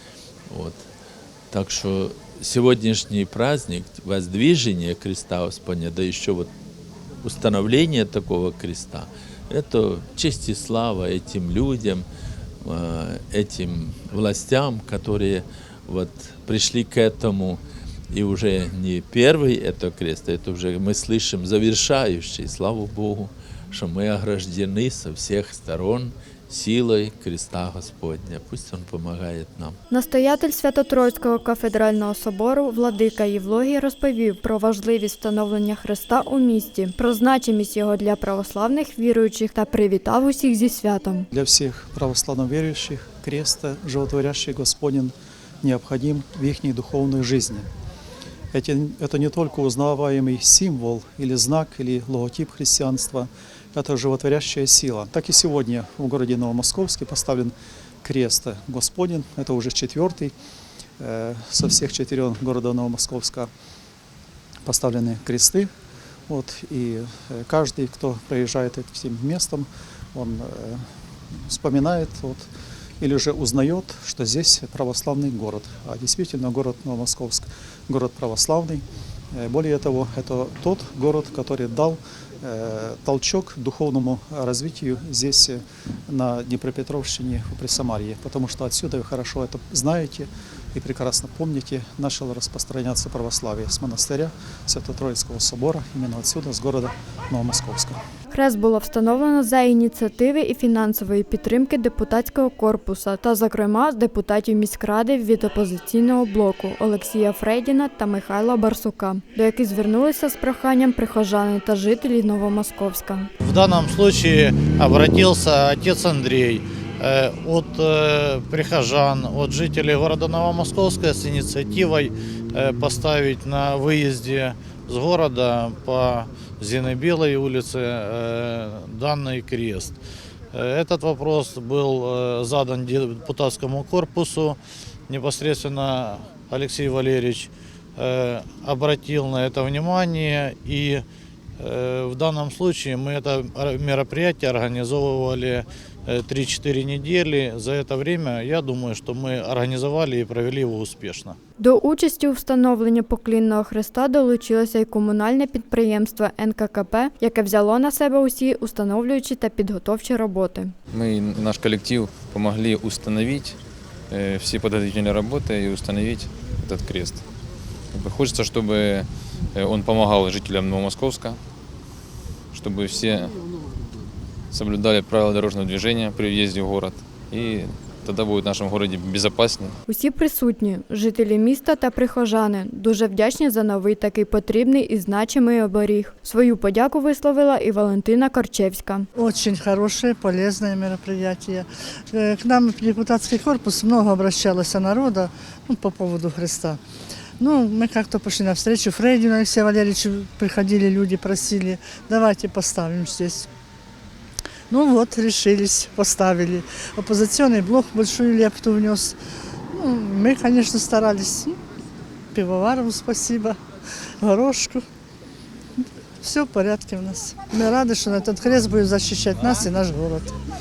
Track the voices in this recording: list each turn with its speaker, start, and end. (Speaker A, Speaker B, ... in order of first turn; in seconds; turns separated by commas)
Speaker A: 0.5-0.8, Speaker A: 1.5-6.5, Speaker A: 7.2-12.1, Speaker A: 12.7-17.6, Speaker A: 18.1-29.8, Speaker B: 29.9-41.3, Speaker C: 41.3-47.7, Speaker C: 48.5-57.5, Speaker C: 58.0-60.3, Speaker C: 61.0-63.5, Speaker C: 64.7-65.7, Speaker C: 66.3-70.8, Speaker C: 71.5-72.5, Speaker C: 73.0-98.0, Speaker B: 98.3-113.3, Speaker D: 113.4-129.9, Speaker D: 130.5-141.0, Speaker D: 141.6-151.4, Speaker B: 151.6-160.8, Speaker E: 160.9-163.6, Speaker E: 164.1-167.2, Speaker E: 167.9-171.4, Speaker E: 172.5-173.4, Speaker E: 174.5-179.8, Speaker B: 179.9-189.1, Speaker F: 189.1-196.8, Speaker F: 197.4-203.5, Speaker F: 204.7-209.2, Speaker F: 209.7-211.6, Speaker F: 212.3-213.6, Speaker F: 214.2-214.8, Speaker F: 215.8-220.3